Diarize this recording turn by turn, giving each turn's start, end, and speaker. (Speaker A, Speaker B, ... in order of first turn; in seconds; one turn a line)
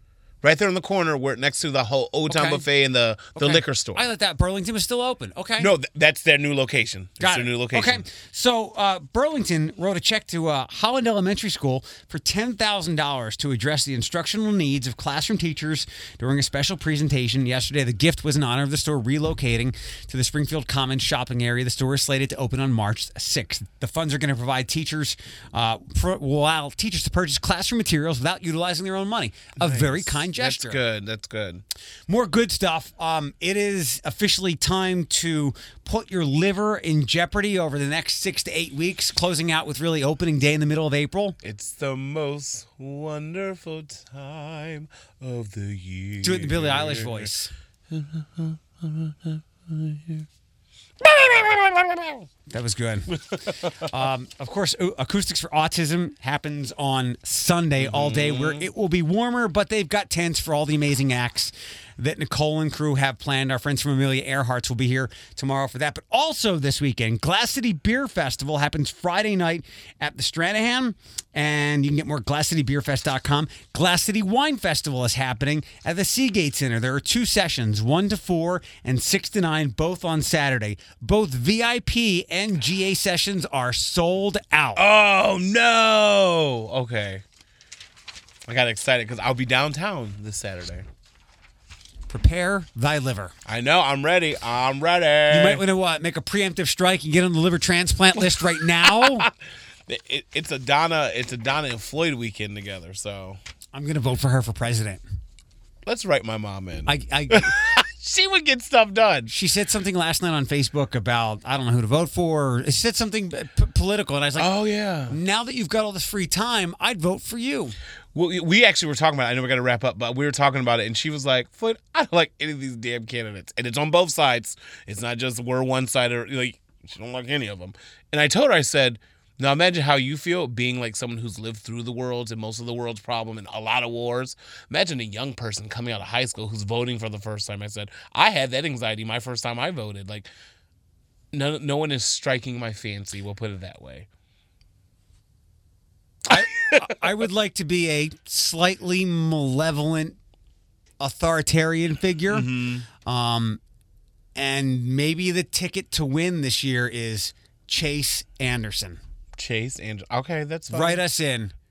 Speaker A: 0.4-4.0
Speaker B: 2.3-2.6
Speaker B: 3.4-5.7
Speaker A: 5.6-8.1
Speaker B: 7.2-30.8
Speaker A: 29.6-31.6
Speaker B: 32.1-41.4
Speaker A: 41.4-47.3
Speaker B: 46.2-47.5
Speaker A: 47.9-50.3
Speaker A: 51.0-52.2
Speaker B: 52.5-53.2
Speaker B: 53.8-84.8
Speaker A: 57.8-58.7
Speaker A: 84.8-87.2
Speaker A: 88.5-90.9
Speaker B: 92.1-93.3
Speaker A: 93.5-95.6
Speaker B: 95.3-99.3
Speaker A: 98.4-99.3
Speaker A: 99.9-103.4
Speaker B: 103.7-105.0
Speaker A: 105.8-109.3
Speaker B: 106.9-107.6
Speaker B: 109.3-114.5
Speaker A: 114.4-115.2
Speaker B: 115.1-117.8
Speaker A: 118.1-140.3
Speaker A: 141.3-144.1
Speaker B: 146.3-150.2
Speaker A: 146.3-146.8
Speaker B: 151.0-153.6
Speaker A: 152.3-152.9
Speaker B: 154.4-159.0
Speaker A: 159.4-161.0
Speaker B: 160.7-161.5